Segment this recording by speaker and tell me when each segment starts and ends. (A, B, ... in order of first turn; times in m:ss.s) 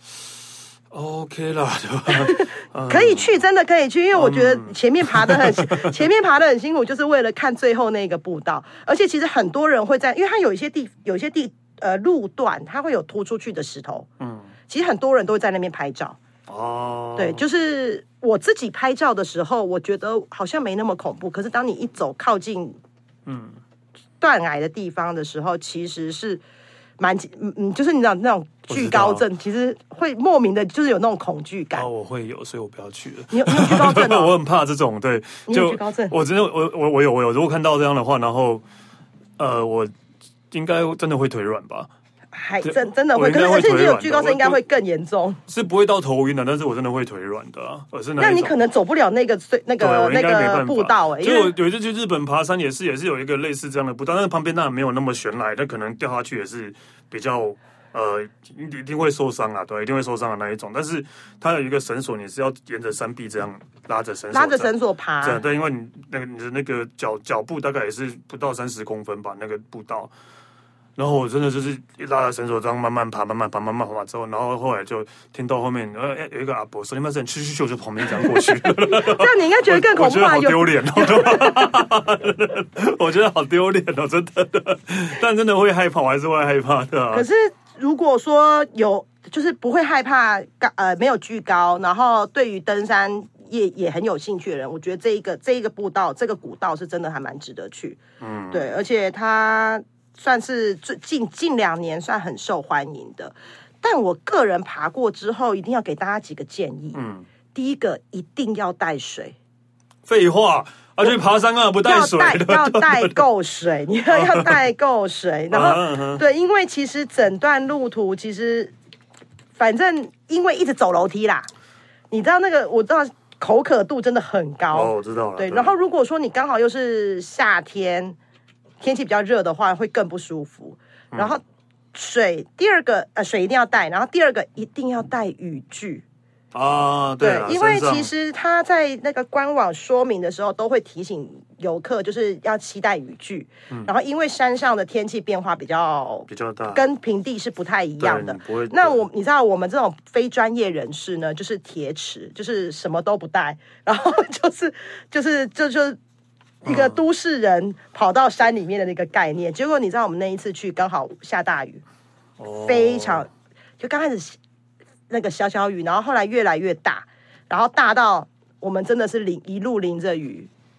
0:00.9-0:03.3 A
0:02.1-0:14.1 B
0:04.1-0:06.0 A
0:14.2-0:14.5 A
0:14.7-0:16.2 B
0:16.5-0:17.4 A
0:17.2-0:22.8 B
0:23.2-0:23.6 A
0:24.2-0:26.4 B
0:27.0-0:31.9 B
0:28.7-0:29.2 A
0:31.7-0:38.6 A
0:33.3-0:34.4 B
0:35.5-0:36.1 B
0:39.4-0:39.9 A
0:40.5-0:41.9 A
0:42.3-0:45.4 B
0:42.6-0:44.6 A
0:45.5-0:48.6 A
0:48.2-0:51.5 B
0:49.8-1:10.1 A
1:04.3-1:05.4 B
1:11.0-1:27.2 A
1:18.2-1:21.7 B
1:27.1-1:38.0 B
1:38.2-1:38.7 A
1:38.5-1:47.0 B
1:46.9-1:47.2 A
1:47.5-1:49.4 B
1:50.0-1:53.2 A
1:51.8-1:58.7 B
1:54.1-1:54.6 A
1:55.5-1:56.2 A
1:59.5-2:01.5 B
2:02.1-2:08.2 B
2:04.7-2:05.7 A
2:08.8-2:11.4 B
2:11.9-2:16.0 B
2:16.5-2:18.1 A
2:17.2-2:36.0 B
2:26.3-2:26.8 A
2:28.0-2:29.0 A
2:36.6-2:41.8 B
2:36.6-2:37.0 A
2:42.4-2:43.3 A
2:42.5-2:44.4 B
2:45.1-2:50.5 B